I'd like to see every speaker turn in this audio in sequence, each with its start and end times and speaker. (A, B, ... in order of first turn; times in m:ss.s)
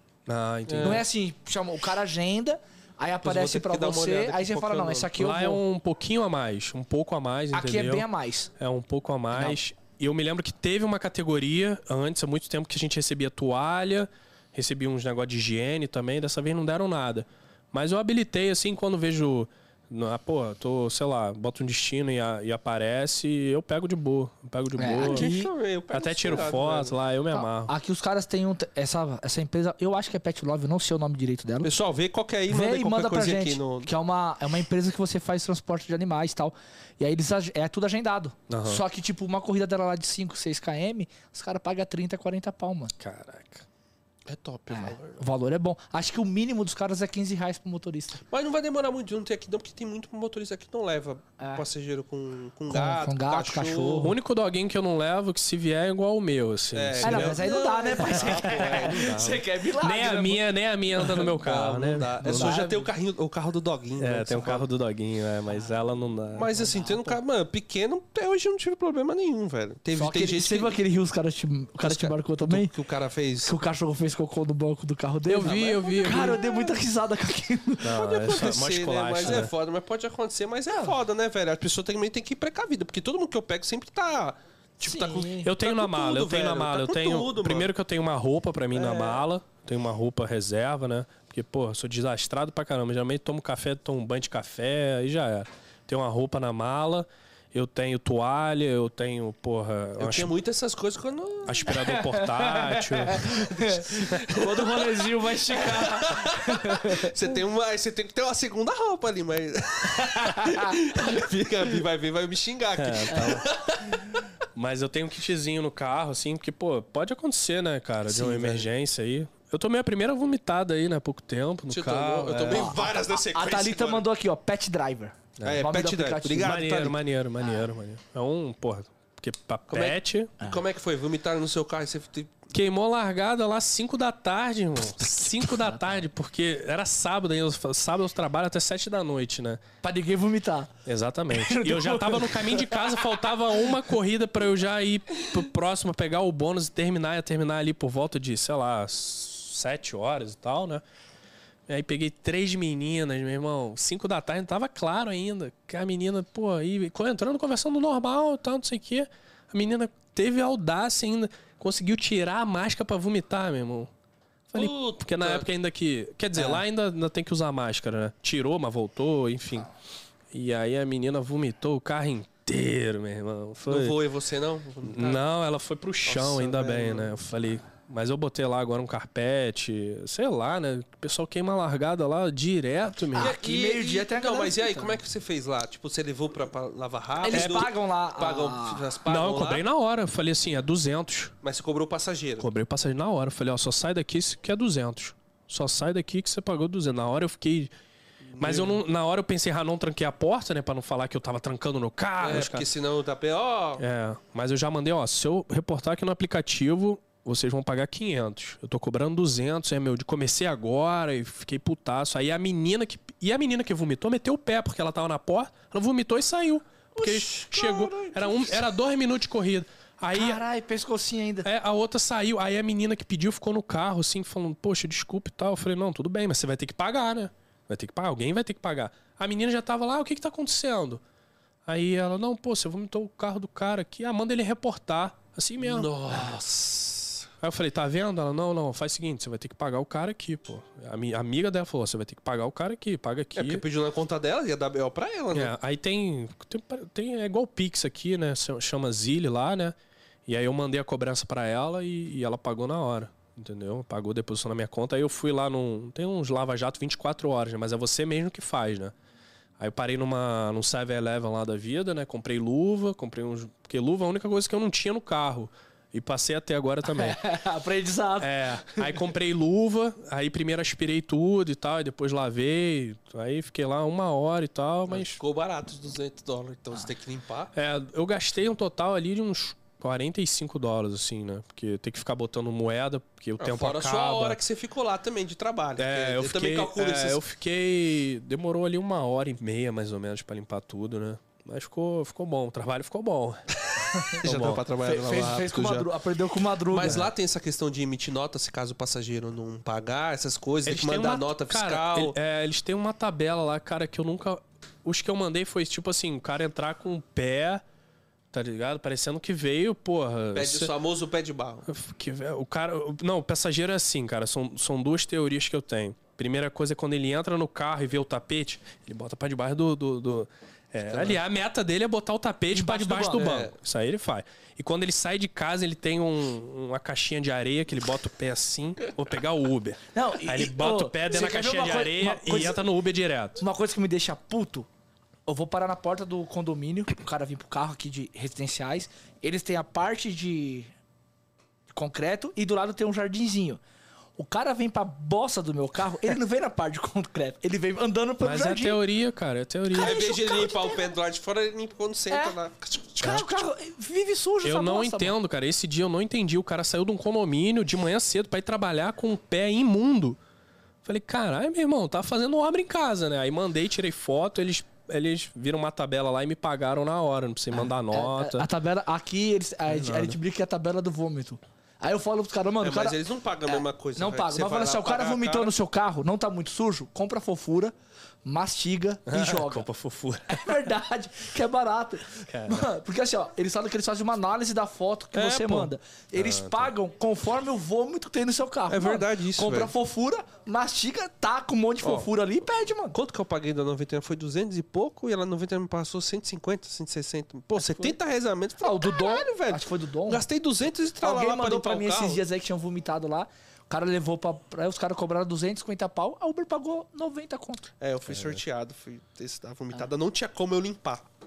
0:00.2-0:01.0 A
0:00.7-0:01.0 B
0:00.8-0:05.6 C
0:03.2-0:05.1 B
0:05.2-0:25.3 A
0:07.5-0:08.5 C
0:09.3-0:09.6 C
0:24.8-0:25.5 C
0:25.0-0:27.0 B
0:25.9-0:27.7 A
0:27.3-0:31.7 C
0:31.6-0:33.9 B
0:32.5-0:42.9 C
0:38.5-0:38.8 A
0:43.0-0:43.6 A
0:44.2-0:45.2 B
0:44.7-0:48.2 C
0:48.3-0:54.1 B
0:51.4-0:51.6 C
0:52.7-0:54.1 C
0:54.0-0:57.4 A
0:56.7-0:59.4 B
0:57.0-1:00.4 C
0:58.2-0:59.2 A
0:59.8-1:02.5 A
1:01.1-1:04.7 B
1:02.2-1:02.9 C
1:04.0-1:06.5 A
1:06.3-1:10.8 B
1:06.5-1:07.2 C
1:10.0-1:12.7 C
1:11.8-1:13.5 B
1:13.4-1:18.1 C
1:15.2-1:16.8 A
1:17.8-1:19.5 A
1:18.0-1:27.7 B
1:24.8-1:25.5 C
1:25.4-1:40.3 A
1:28.7-1:29.2 B
1:40.0-1:41.7 B
1:41.4-1:44.2 A
1:41.6-1:47.1 C
1:44.3-1:54.2 B
1:50.0-1:50.8 C
1:52.8-1:53.5 A
1:54.5-2:02.8 A
1:58.0-1:58.7 B
2:01.7-2:04.0 B
2:02.5-2:06.5 C
2:05.4-2:07.0 B
2:06.4-2:10.3 A
2:09.7-2:12.5 B
2:12.5-2:19.6 A
2:19.8-2:20.7 C
2:20.8-2:30.8 A
2:21.3-2:23.0 C
2:31.7-2:43.9 A
2:44.5-2:49.7 A
2:44.5-2:45.5 B
2:50.3-2:54.0 A
2:53.7-2:55.2 B
2:54.8-3:03.4 A
2:56.0-2:57.1 B
3:03.1-3:05.0 C
3:03.1-3:09.6 B
3:07.2-3:08.9 C
3:07.3-3:07.7 A
3:09.0-3:11.3 A
3:11.4-3:12.5 B
3:12.4-3:17.7 A
3:18.3-3:18.8 B
3:18.4-3:22.7 A
3:22.2-3:23.8 B
3:23.8-3:40.4 A
3:36.9-3:38.6 C
3:40.1-3:41.5 C
3:41.4-3:51.0 A
3:51.6-3:55.9 A
3:55.6-3:57.3 B
3:57.4-4:03.6 A
4:03.3-4:05.5 B
4:05.3-4:09.8 A
4:10.3-4:18.9 A
4:19.6-4:27.2 A
4:26.8-4:29.0 C
4:28.2-4:35.2 A
4:34.9-4:37.5 B
4:37.5-4:44.4 A
4:43.4-4:47.2 B
4:45.8-4:53.4 A
4:53.7-4:55.9 B
4:53.9-4:54.2 C
4:54.1-4:54.6 A
4:54.8-4:57.0 C
4:56.7-5:02.2 B
5:00.6-5:07.6 A
5:08.3-5:10.7 A
5:10.3-5:11.7 B
5:11.7-5:33.4 A
5:20.9-5:21.2 B
5:22.5-5:23.4 C
5:29.9-5:32.6 C
5:33.4-5:34.7 C
5:35.3-5:40.7 C
5:41.7-5:43.6 C
5:44.2-5:48.8 C
5:48.2-5:50.0 A
5:49.7-5:53.4 B
5:49.7-5:50.8 C
5:52.1-5:52.4 C
5:53.0-5:55.1 C
5:54.4-6:00.2 A
6:00.8-6:08.5 A
6:07.5-6:17.7 C
6:09.7-6:10.2 A
6:12.6-6:15.5 B
6:18.2-6:19.7 C
6:19.0-6:20.6 A
6:20.3-6:33.0 C
6:22.3-6:22.7 A
6:25.1-6:26.7 A
6:28.7-6:29.7 B
6:31.8-6:32.1 B
6:32.9-6:42.2 B
6:38.6-6:40.2 C
6:41.0-6:47.6 C
6:47.8-6:51.0 B
6:48.1-6:48.4 A